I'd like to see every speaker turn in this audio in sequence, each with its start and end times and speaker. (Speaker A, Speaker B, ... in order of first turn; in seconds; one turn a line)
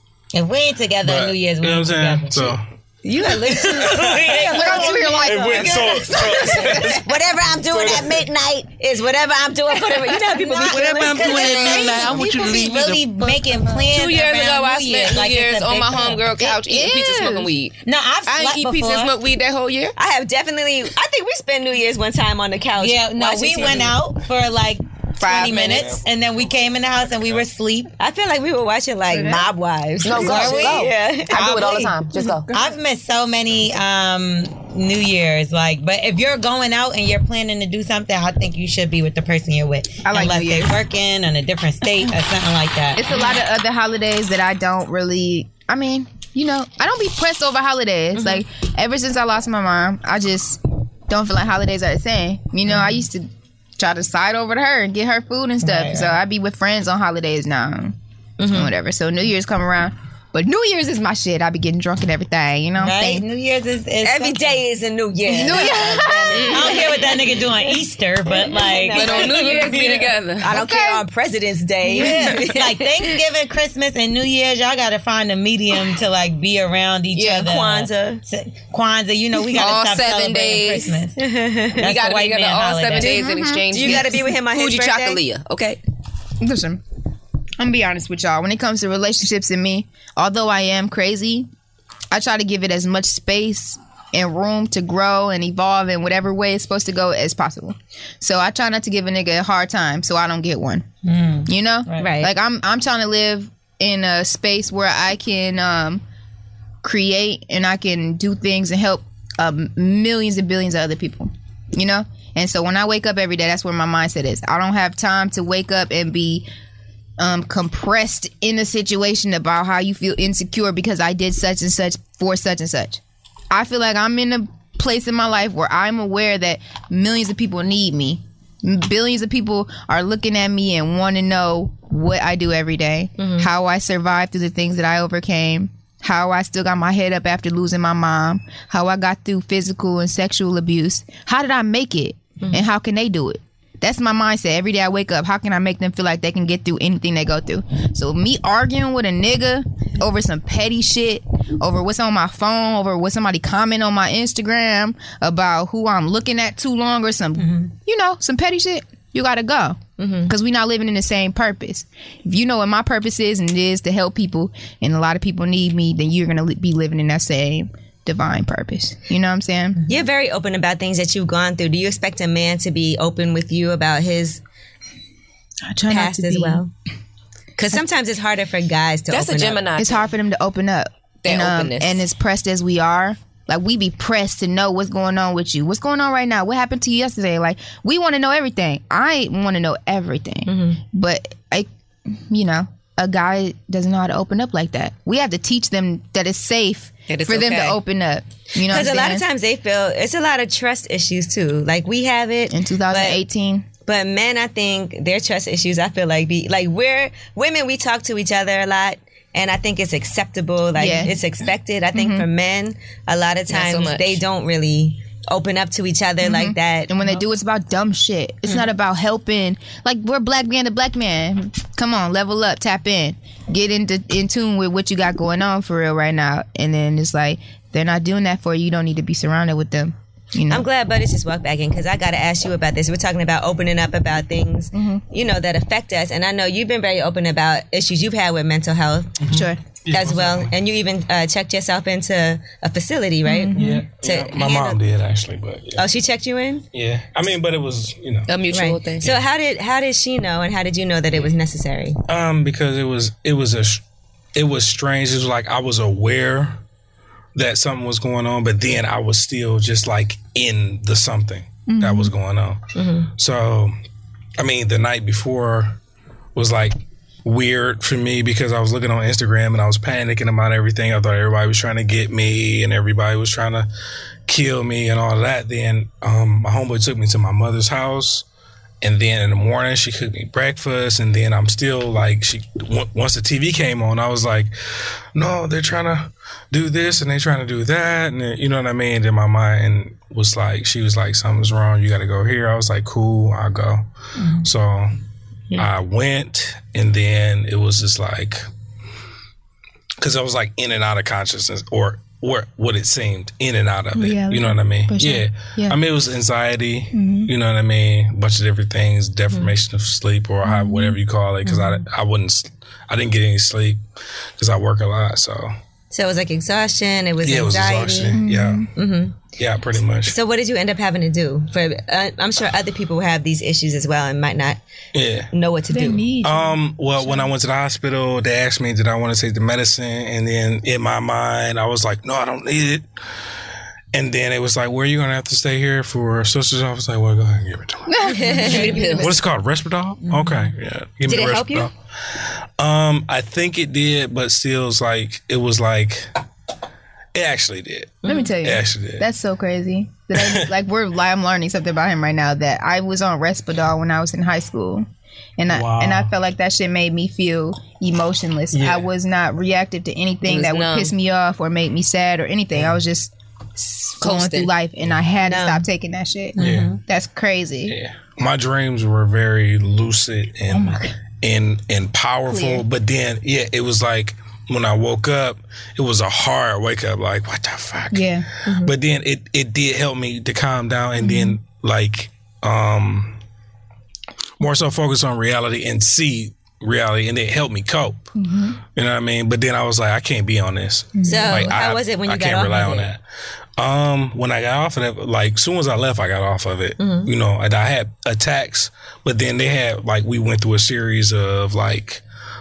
Speaker A: 0.3-2.5
Speaker B: 1.0-2.6
Speaker C: 3.0-5.0
Speaker A: 3.2-5.8
Speaker B: 3.8-4.5
Speaker D: 4.3-7.0
Speaker B: 5.2-8.2
Speaker C: 6.3-12.1
Speaker B: 10.7-13.1
Speaker E: 10.7-12.5
Speaker A: 10.8-16.2
Speaker E: 13.7-19.9
Speaker D: 16.4-17.5
Speaker A: 17.9-19.1
Speaker C: 20.0-24.0
Speaker A: 22.8-27.9
Speaker E: 25.2-25.9
Speaker B: 25.3-26.0
Speaker C: 28.0-31.5
Speaker E: 30.0-32.6
Speaker A: 30.1-30.9
Speaker D: 30.1-32.6
Speaker A: 32.5-43.1
Speaker D: 40.1-40.8
Speaker D: 43.0-58.0
Speaker A: 55.6-56.2
Speaker C: 58.4-58.7
Speaker D: 58.5-63.2
Speaker A: 62.8-64.6
Speaker C: 64.0-67.5
Speaker D: 65.3-66.6
Speaker E: 65.5-66.9
Speaker A: 66.5-70.1
Speaker C: 68.3-69.8
Speaker E: 68.9-70.5
Speaker C: 70.4-73.2
Speaker D: 70.4-71.0
Speaker A: 71.9-81.2
Speaker C: 77.1-78.2
Speaker E: 79.5-80.9
Speaker C: 81.2-81.8
Speaker A: 81.8-83.2
Speaker E: 81.8-85.8
Speaker D: 82.9-84.2
Speaker C: 83.7-85.2
Speaker D: 86.4-86.8
Speaker D: 87.6-91.5
Speaker D: 92.1-100.9
Speaker A: 101.0-102.1
Speaker D: 101.5-106.0
Speaker C: 102.0-102.3
Speaker D: 106.8-116.5
Speaker D: 117.2-169.8
Speaker C: 133.2-133.5
Speaker C: 142.4-142.7
Speaker C: 160.0-160.3
Speaker C: 169.9-174.4
Speaker D: 175.6-176.6
Speaker C: 175.9-176.7
Speaker C: 177.6-179.6
Speaker E: 179.1-180.1
Speaker D: 179.8-199.2
Speaker E: 181.2-182.0
Speaker C: 190.5-190.8
Speaker E: 197.1-197.8
Speaker C: 198.6-203.2
Speaker D: 202.5-203.7
Speaker C: 203.9-216.9
Speaker D: 210.8-211.2
Speaker D: 211.9-212.3
Speaker E: 213.5-214.2
Speaker D: 216.2-230.7
Speaker C: 230.5-239.2
Speaker D: 234.7-235.0
Speaker B: 239.2-240.5
Speaker D: 239.3-239.6
Speaker C: 239.9-244.8
Speaker D: 243.2-243.8
Speaker B: 243.6-245.8
Speaker C: 245.8-246.7
Speaker B: 246.7-248.3
Speaker E: 248.3-249.1
Speaker C: 248.5-252.0
Speaker B: 252.1-253.8
Speaker B: 254.3-256.6
Speaker B: 257.4-263.7
Speaker D: 261.7-262.1
Speaker C: 262.8-263.1
Speaker B: 264.4-265.8
Speaker B: 266.4-273.7
Speaker B: 274.3-278.3
Speaker B: 278.8-284.5
Speaker B: 285.1-293.8
Speaker B: 294.4-294.9
Speaker B: 295.6-298.4
Speaker B: 300.0-313.8
Speaker D: 304.0-305.8
Speaker D: 306.9-307.3
Speaker D: 310.4-311.0
Speaker B: 314.4-315.5
Speaker C: 315.9-318.2
Speaker B: 317.2-320.1
Speaker D: 318.2-318.7
Speaker C: 318.8-319.2
Speaker C: 320.1-324.6
Speaker B: 324.9-325.3
Speaker C: 325.3-326.1
Speaker D: 325.7-327.3
Speaker B: 326.2-332.9
Speaker B: 333.9-346.1
Speaker D: 337.9-339.1
Speaker C: 338.1-339.0
Speaker E: 338.3-339.2
Speaker A: 340.1-340.4
Speaker C: 341.1-341.7
Speaker B: 347.1-349.1
Speaker C: 348.0-348.3
Speaker D: 348.1-354.9
Speaker B: 350.2-350.5
Speaker D: 355.4-367.8
Speaker B: 355.5-356.1
Speaker B: 358.5-358.9
Speaker E: 360.3-360.9
Speaker E: 364.0-364.5
Speaker C: 365.2-365.7
Speaker A: 366.4-366.8
Speaker B: 366.4-366.8
Speaker B: 367.7-378.1
Speaker D: 372.3-372.7
Speaker D: 377.9-378.3
Speaker C: 378.5-378.7
Speaker B: 378.6-383.2
Speaker D: 381.0-381.4
Speaker B: 384.4-388.1
Speaker D: 388.2-388.6
Speaker B: 388.7-393.0
Speaker D: 391.0-391.5
Speaker C: 391.0-392.9
Speaker B: 393.6-402.0
Speaker C: 396.8-397.1